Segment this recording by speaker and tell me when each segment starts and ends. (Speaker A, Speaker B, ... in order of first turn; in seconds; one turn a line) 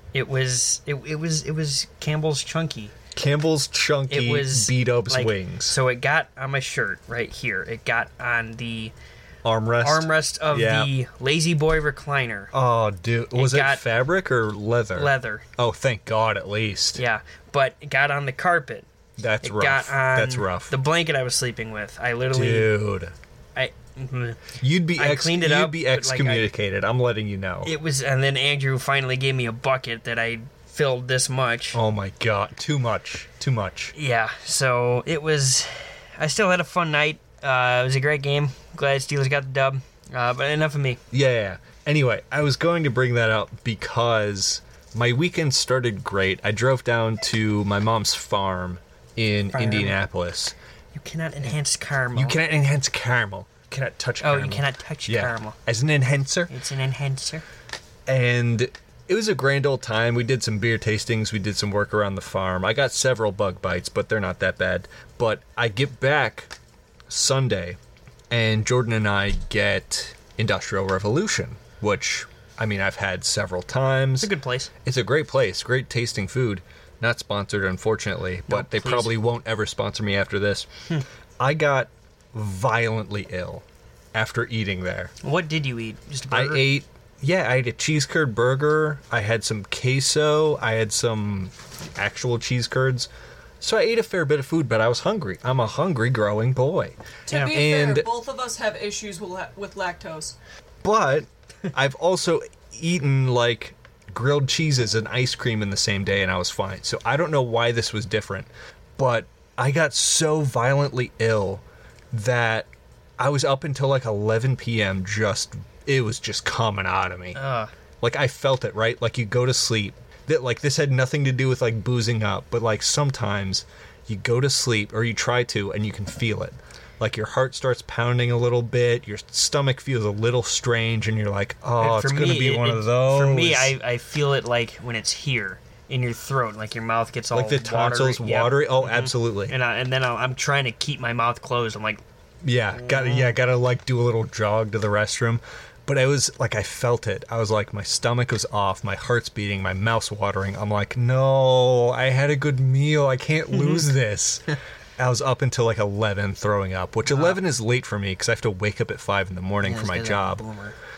Speaker A: 0.1-3.0
Speaker B: 3.1-5.8
Speaker A: 4.1-8.9
Speaker B: 9.4-10.9
Speaker A: 9.8-12.5
Speaker B: 12.5-17.0
Speaker A: 13.3-13.8
Speaker A: 14.9-15.4
Speaker A: 16.9-18.9
Speaker B: 19.2-20.7
Speaker A: 19.4-22.7
Speaker B: 22.3-23.1
Speaker A: 23.6-26.5
Speaker B: 24.6-27.7
Speaker A: 27.6-31.8
Speaker B: 31.7-33.9
Speaker A: 33.9-41.0
Speaker B: 41.1-50.5
Speaker A: 49.5-50.0
Speaker A: 50.9-52.4
Speaker B: 52.1-56.5
Speaker A: 54.2-55.6
Speaker A: 56.5-57.5
Speaker B: 58.1-66.5
Speaker B: 67.1-67.8
Speaker B: 68.3-74.3
Speaker A: 74.2-74.7
Speaker B: 74.8-80.7
Speaker A: 78.5-79.1
Speaker B: 81.4-85.1
Speaker A: 85.2-86.7
Speaker B: 86.3-93.1
Speaker B: 93.6-98.1
Speaker C: 97.3-100.4
Speaker B: 100.8-117.4
Speaker A: 117.3-117.7
Speaker B: 118.0-133.8
Speaker A: 131.8-142.0
Speaker B: 137.3-139.6
Speaker B: 142.4-154.4
Speaker A: 142.8-143.4
Speaker A: 153.5-153.9
Speaker B: 155.0-160.4
Speaker A: 157.1-157.4
Speaker A: 159.6-160.8